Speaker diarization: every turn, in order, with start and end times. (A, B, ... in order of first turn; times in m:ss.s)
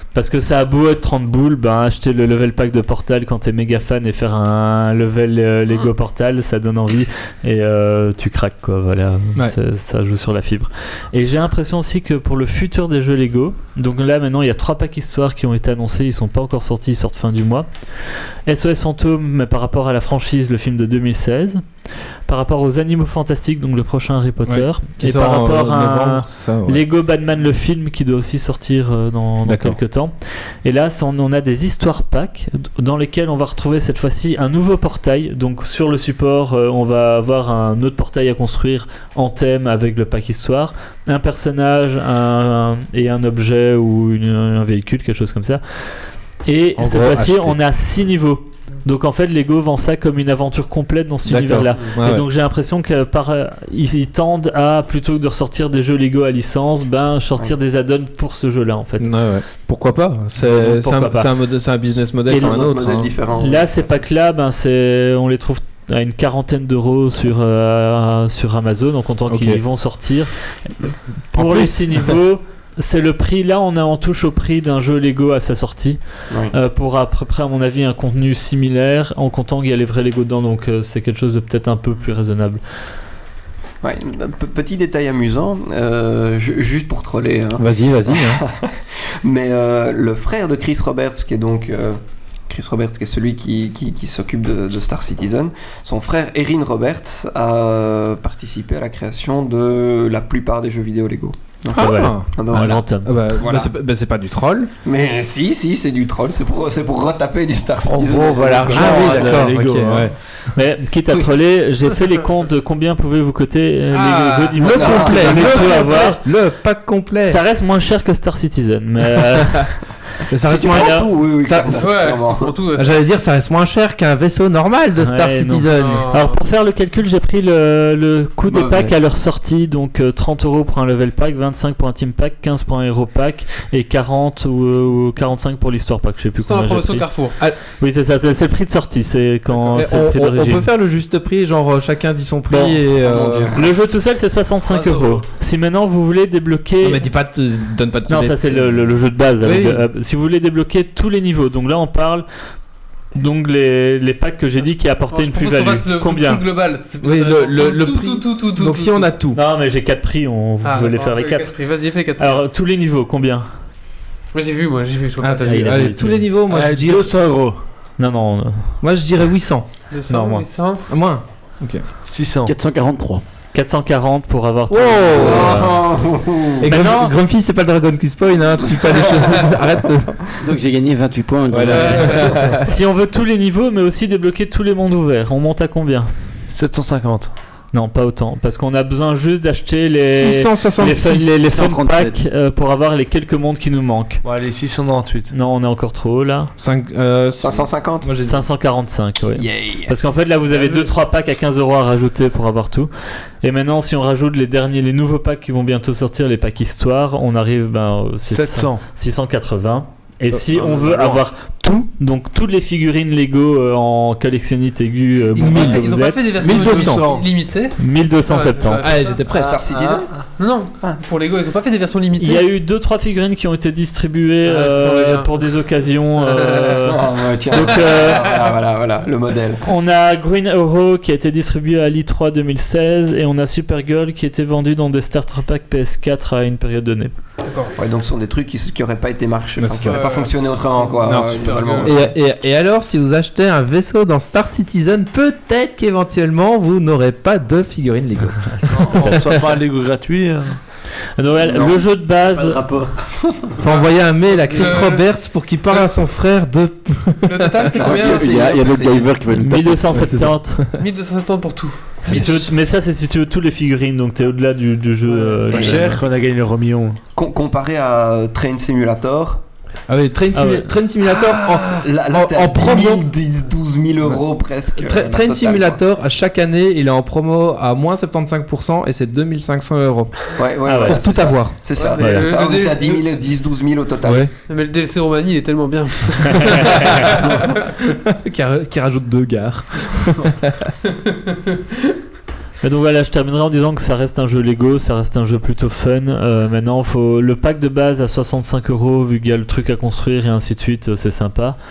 0:00.1-0:17.7 A
0:18.4-0:21.6 A
0:22.3-0:45.6 A
0:24.4-0:26.8 B
0:29.4-0:29.8 B
0:46.4-0:59.1 A
0:46.8-0:47.6 B
0:51.2-0:52.2 B
0:59.0-1:03.1 B
1:00.4-1:01.3 A
1:02.3-1:02.6 A
1:02.3-1:03.7 C
1:03.4-1:16.0 A
1:09.3-1:09.6 B
1:11.4-1:12.1 B
1:16.5-1:22.6 A
1:23.8-1:43.7 C
1:27.6-1:28.4 B
1:41.7-1:44.7 B
1:41.7-1:43.2 A
1:44.8-1:49.4 C
1:47.8-1:50.1 D
1:48.7-1:50.1 B
1:50.5-1:56.2 A
1:53.9-1:55.9 E
1:54.6-1:57.4 B
1:54.7-1:55.8 C
1:57.2-1:59.9 A
2:00.3-2:02.1 B
2:00.4-2:02.5 C
2:00.6-2:01.1 A
2:01.8-2:03.0 E
2:02.8-2:06.1 B
2:05.0-2:17.1 A
2:05.7-2:06.4 E
2:08.5-2:08.9 C
2:16.4-2:17.3 E
2:17.6-2:20.7 A
2:19.6-2:23.5 B
2:22.5-2:22.8 A
2:22.9-2:23.7 C
2:23.5-2:27.0 A
2:24.6-2:25.2 D
2:26.8-2:28.8 B
2:28.1-2:32.2 A
2:29.4-2:29.8 B
2:33.1-2:36.4 A
2:35.1-2:39.1 E
2:37.0-2:39.4 B
2:39.3-2:41.5 A
2:40.6-2:42.4 E
2:42.2-2:43.5 A
2:44.3-2:45.8 E
2:45.2-2:47.1 B
2:45.5-2:46.3 A
2:46.4-2:47.6 D
2:48.0-2:48.7 A
2:48.8-2:49.7 B
2:49.9-2:50.8 E
2:50.1-2:50.4 A
2:50.9-2:51.8 B
2:52.0-2:52.5 D
2:52.4-2:53.2 F
2:53.5-2:56.0 A
2:54.7-2:55.7 B
2:55.2-2:56.6 C
2:56.6-3:00.3 B
2:56.6-2:57.1 A
3:00.4-3:02.3 F
3:01.5-3:02.7 B
3:01.7-3:02.3 E
3:02.6-3:06.1 A
3:06.5-3:07.3 D
3:07.7-3:14.2 A
3:10.0-3:11.5 B
3:11.5-3:12.2 F
3:14.2-3:15.3 D
3:15.3-3:16.5 A
3:16.6-3:18.4 B
3:17.4-3:18.1 C
3:18.2-3:22.9 A
3:19.3-3:19.9 C
3:20.5-3:20.9 D
3:23.4-3:36.6 A
3:28.3-3:28.8 D
3:30.3-3:30.8 B
3:30.7-3:31.2 D
3:35.3-3:37.0 B
3:35.4-3:39.2 E
3:36.4-3:37.3 D
3:37.8-3:39.0 A
3:38.8-3:39.6 B
3:39.3-3:40.1 C
3:40.4-3:42.5 E
3:42.2-3:48.5 A
3:44.4-3:45.4 E
3:46.2-3:46.8 E
3:46.8-3:49.6 C
3:49.6-3:57.1 A
3:57.4-3:57.7 E
3:57.7-4:02.1 C
3:59.6-4:00.1 B
3:59.8-4:02.1 E
4:01.0-4:08.8 B
4:08.8-4:10.6 D
4:11.2-4:12.6 A
4:11.4-4:11.8 C
4:13.1-4:13.4 C
4:13.6-4:17.7 B
4:13.7-4:15.0 E
4:17.3-4:18.6 E
4:17.7-4:19.2 C
4:17.7-4:20.1 F
4:19.3-4:20.6 A
4:19.9-4:20.7 B
4:20.8-4:22.5 E
4:22.0-4:26.0 A
4:25.0-4:25.5 E
4:25.5-4:27.0 D
4:25.5-4:25.8 C
4:27.1-4:29.4 C
4:29.9-4:33.0 B
4:30.3-4:30.7 A
4:31.7-4:35.8 C
4:34.8-4:40.2 B
4:40.4-4:44.3 C
4:40.6-4:41.2 A
4:40.8-4:41.6 B
4:41.7-4:43.0 E
4:42.0-4:42.4 A
4:44.0-4:44.3 B
4:44.5-4:47.5 E
4:46.4-4:46.9 A
4:47.8-4:50.7 B
4:51.0-4:51.5 E
4:52.6-5:01.6 A